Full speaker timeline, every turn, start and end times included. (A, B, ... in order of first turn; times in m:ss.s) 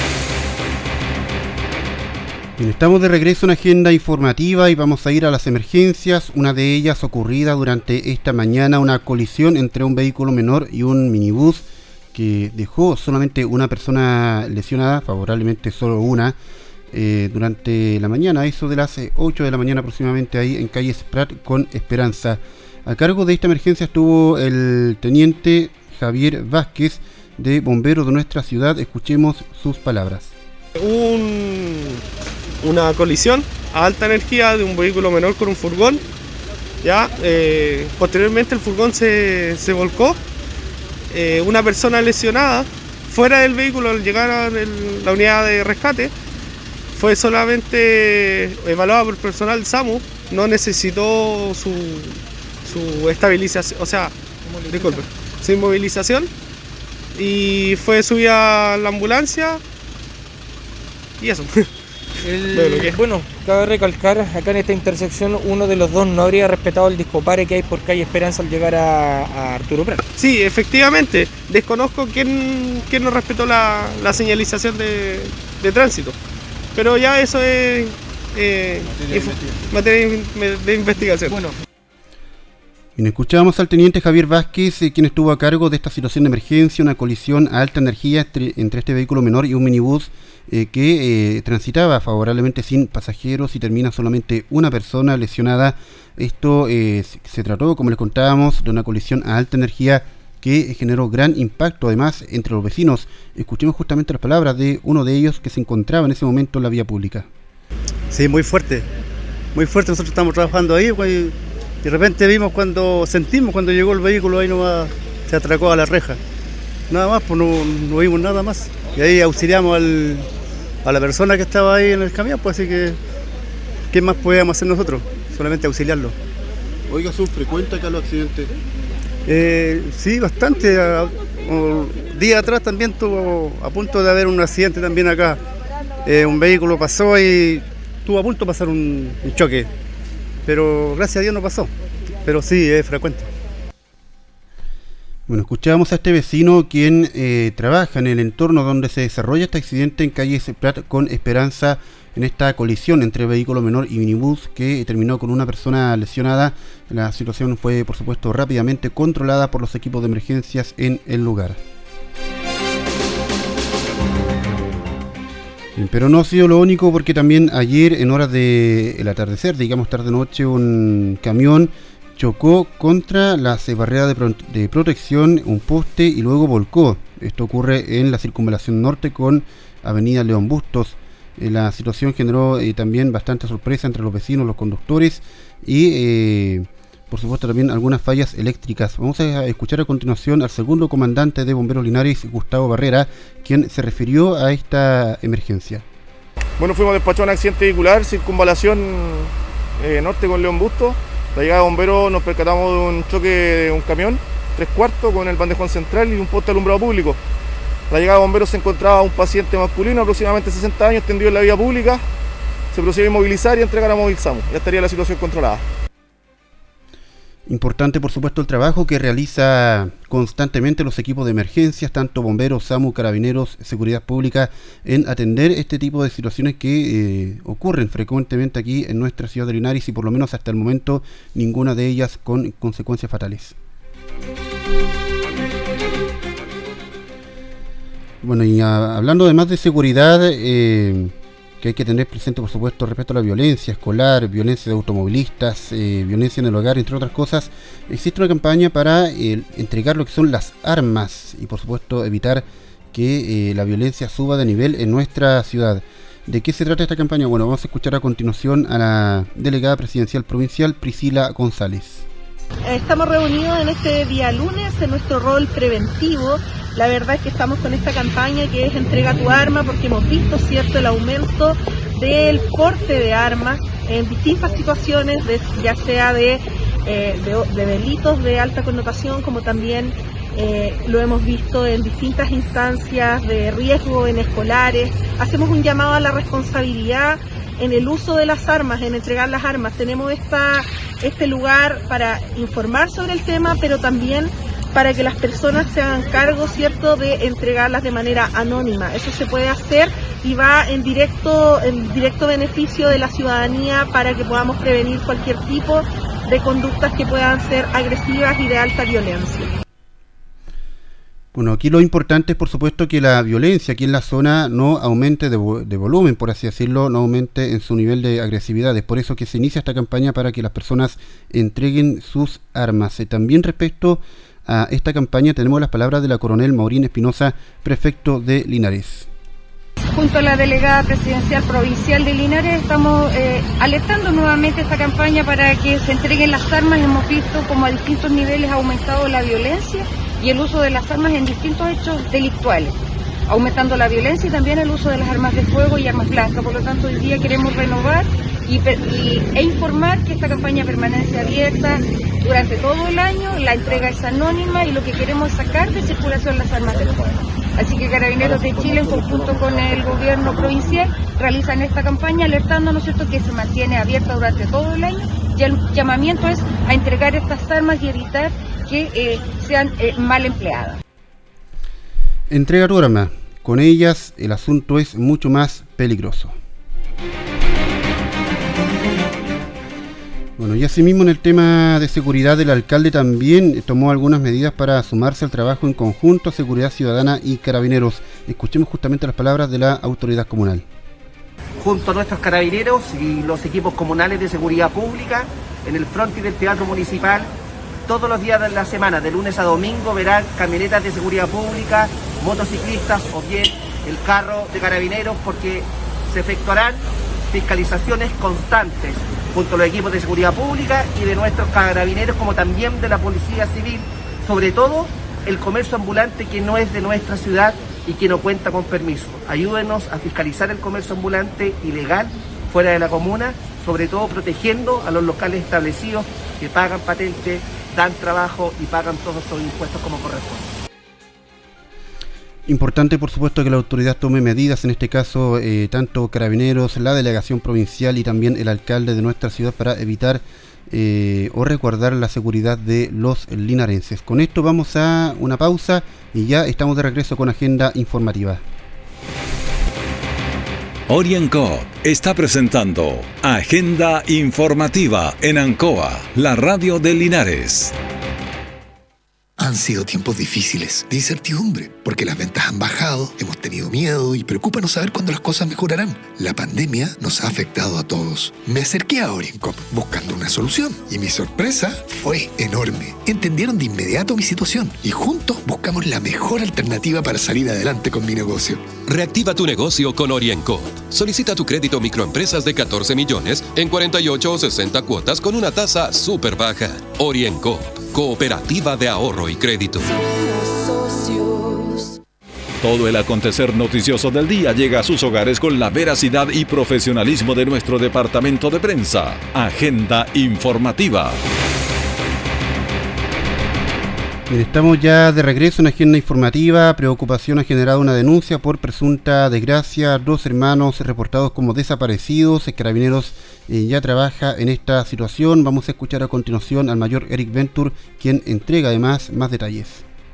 0:02.6-0:16.4 A
0:16.9-0:30.3 A
0:30.8-0:32.0 B
0:32.6-0:36.0 B
0:36.8-0:40.2 B
0:41.1-0:46.1 B
0:46.9-0:54.2 B
0:54.4-0:55.1 C
0:54.7-0:56.3 B
0:57.2-0:59.6 B
1:01.2-1:01.7 B
1:02.2-1:10.1 C
1:02.5-1:03.0 B
1:10.2-1:16.2 B
1:16.8-1:21.5 B
1:23.0-1:47.3 A
1:48.1-1:48.9 D
1:49.5-1:56.2 D
1:56.9-2:00.3 D
2:00.8-2:03.0 D
2:03.9-2:06.2 D
2:06.9-2:08.5 A
2:09.3-2:15.4 D
2:16.0-2:19.7 D
2:20.5-2:21.7 D
2:22.2-2:23.3 D
2:25.3-2:41.6 A
2:45.8-3:15.8 A
3:16.6-3:27.2 E
3:27.9-3:32.0 E
3:32.7-3:35.6 E
3:37.5-3:53.6 A
3:58.2-4:22.1 A
4:22.6-5:09.5 F
5:11.3-5:29.1 A
5:29.9-5:42.8 G
5:43.3-5:57.0 G
5:57.6-6:10.8 G
6:12.3-6:16.4 A
6:20.4-6:30.6 A
6:31.6-6:37.3 H
6:37.9-7:10.5 H
7:12.5-7:28.4 A
7:30.9-7:37.8 I
7:39.4-7:58.7 J
7:58.9-8:09.9 K
8:12.6-8:21.2 I
8:24.3-8:39.8 A